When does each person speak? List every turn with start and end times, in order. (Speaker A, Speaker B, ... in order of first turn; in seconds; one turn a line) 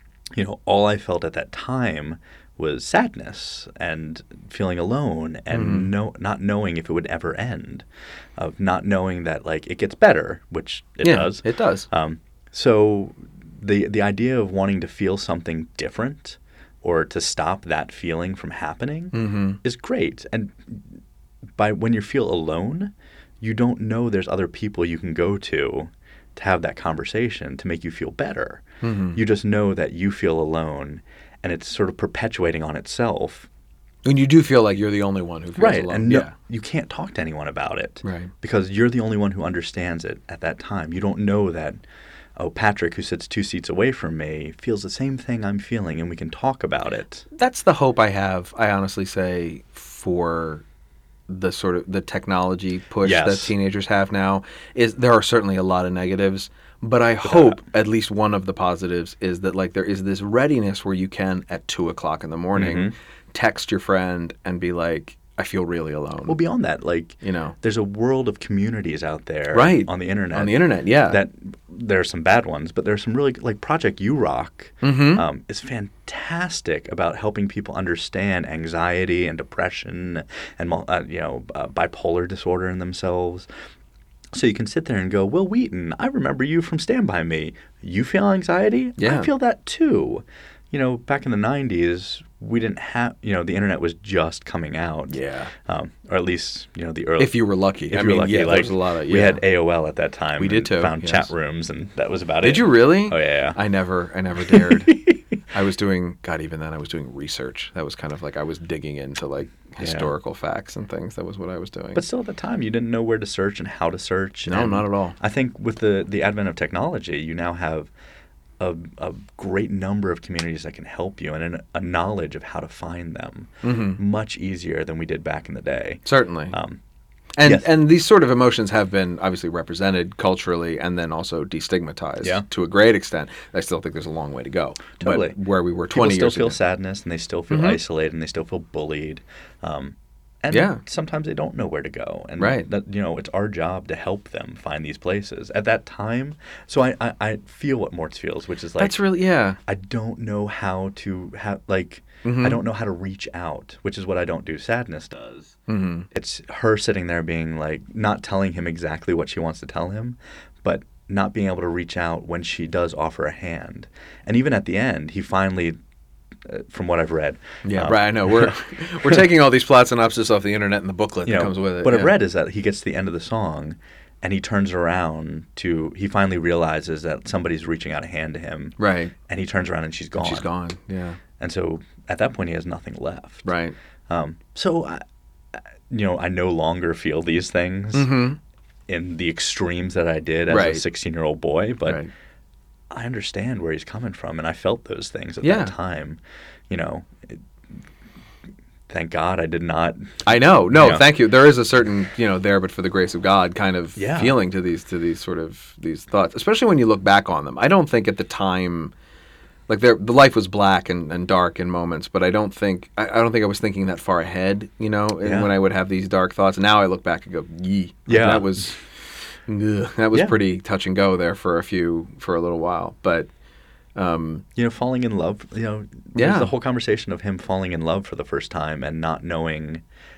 Speaker A: 0.3-7.8
Speaker B: 5.5-5.9
Speaker A: 8.4-21.0
Speaker B: 11.0-11.9
Speaker B: 19.1-19.6
Speaker A: 21.6-33.5
Speaker B: 28.8-29.2
Speaker B: 34.0-36.3
Speaker A: 35.5-41.8
Speaker B: 38.0-38.3
Speaker A: 42.4-47.2
Speaker B: 47.3-50.6
Speaker B: 51.3-66.4
Speaker A: 53.0-53.5
Speaker A: 57.2-57.6
Speaker A: 62.5-62.9
Speaker A: 66.3-83.5
Speaker B: 67.2-67.5
Speaker B: 69.5-71.2
Speaker B: 74.8-75.2
Speaker A: 84.3-103.6
Speaker B: 89.0-89.3
Speaker B: 95.1-95.5
Speaker B: 97.2-99.4
Speaker B: 100.4-101.3
Speaker B: 102.4-105.0
Speaker A: 104.5-105.2
Speaker B: 105.5-112.0
Speaker A: 109.8-110.1
Speaker A: 111.9-117.9
Speaker B: 114.5-115.2
Speaker A: 118.6-126.8
Speaker B: 123.6-124.0
Speaker B: 126.0-126.6
Speaker B: 127.3-136.6
Speaker A: 127.4-127.7
Speaker A: 135.0-135.4
Speaker A: 135.9-149.0
Speaker B: 137.5-137.8
Speaker B: 140.5-140.8
Speaker B: 142.4-142.7
Speaker B: 148.8-149.6
Speaker A: 149.6-155.5
Speaker B: 152.2-152.6
Speaker B: 155.7-156.1
Speaker A: 156.1-165.8
Speaker A: 166.4-169.2
Speaker B: 167.6-172.1
Speaker A: 171.2-178.8
Speaker B: 178.8-179.1
Speaker A: 179.3-180.5
Speaker B: 180.2-181.2
Speaker A: 181.4-183.5
Speaker B: 183.4-183.7
Speaker A: 184.1-185.0
Speaker A: 185.5-188.1
Speaker B: 187.9-188.4
Speaker A: 188.9-192.0
Speaker B: 190.5-190.8
Speaker B: 191.8-192.1
Speaker A: 192.9-197.4
Speaker B: 195.4-195.7
Speaker A: 198.9-201.1
Speaker B: 200.2-208.9
Speaker A: 203.9-204.4
Speaker B: 209.7-218.8
Speaker A: 215.2-215.5
Speaker A: 218.1-218.7
Speaker B: 219.5-223.3
Speaker A: 220.1-220.4
Speaker B: 223.9-224.4
Speaker A: 224.5-229.8
Speaker B: 226.1-226.5